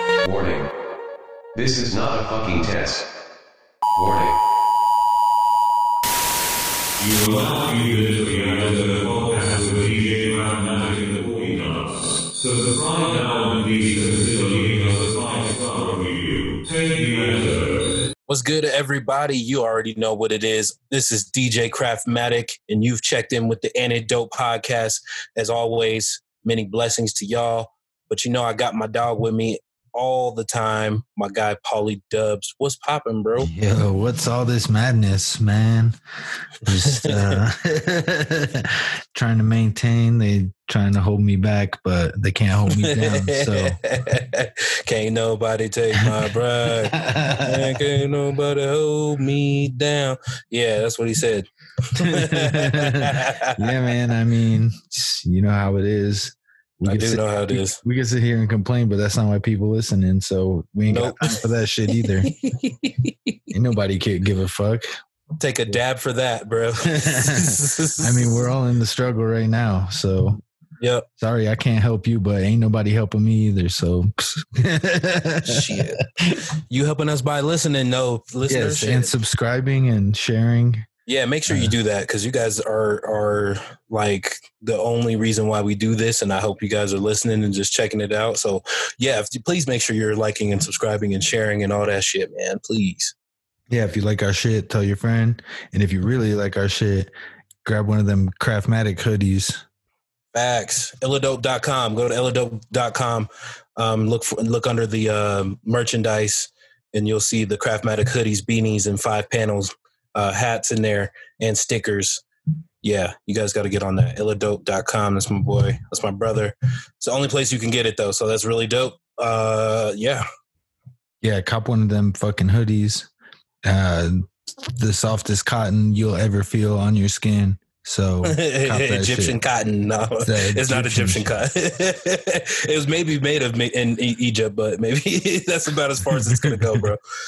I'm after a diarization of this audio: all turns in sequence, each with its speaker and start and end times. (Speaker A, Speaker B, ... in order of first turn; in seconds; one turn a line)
Speaker A: 0.2-0.7
Speaker A: 1.6-3.0
Speaker A: 4.0-4.3
Speaker B: 7.0-17.9
Speaker C: 18.3-33.5
Speaker D: 33.4-36.0
Speaker D: 36.6-43.8
Speaker C: 36.9-37.1
Speaker C: 42.7-53.8
Speaker D: 46.6-47.8
Speaker D: 52.0-62.3
Speaker C: 56.9-57.8
Speaker C: 60.9-61.4
Speaker C: 62.2-63.4
Speaker D: 63.5-64.9
Speaker C: 65.4-68.4
Speaker D: 66.9-70.4
Speaker C: 70.8-71.1
Speaker D: 71.2-76.4
Speaker C: 75.4-76.0
Speaker C: 76.7-79.1
Speaker D: 78.5-80.9
Speaker C: 81.1-93.1
Speaker D: 81.5-81.7
Speaker D: 93.7-97.1
Speaker D: 97.7-99.6
Speaker C: 100.3-112.2
Speaker C: 112.8-120.2
Speaker D: 121.2-123.1
Speaker D: 123.7-129.4
Speaker C: 128.2-137.0
Speaker D: 130.2-131.3
Speaker D: 136.2-136.8